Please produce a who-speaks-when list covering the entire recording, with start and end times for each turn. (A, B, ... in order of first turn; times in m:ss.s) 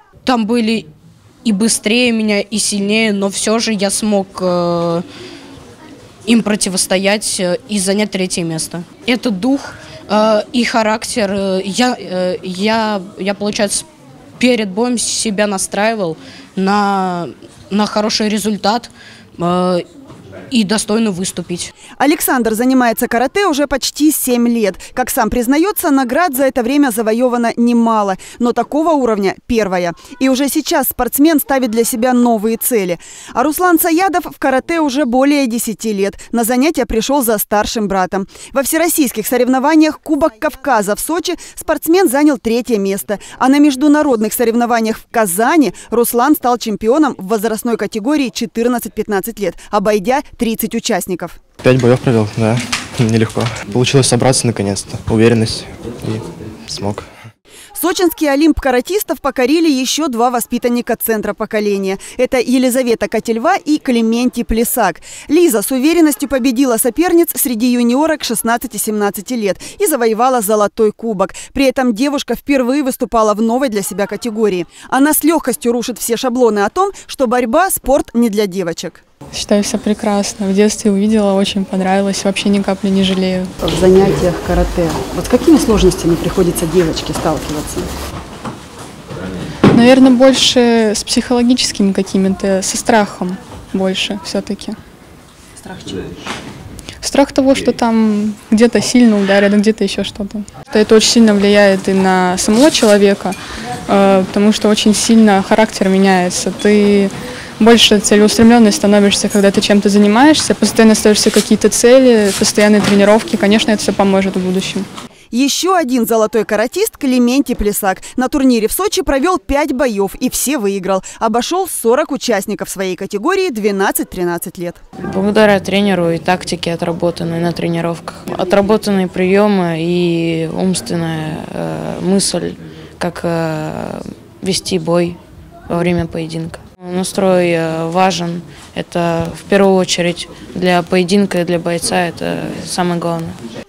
0:00.2-0:00.9 A
0:01.4-0:05.0 A
0:06.3-0:13.8 A
0:14.4-0:19.8 A
0:20.5-0:21.7 A
0:22.0-0:51.4 B
0:51.6-0:57.1 C
0:57.8-1:19.0 B
1:19.3-1:23.5 D
1:23.6-1:27.9 B
1:29.7-1:34.8 D
1:35.7-1:35.9 B
1:37.0-1:54.9 D
1:55.3-2:04.8 B
2:05.0-2:23.4 E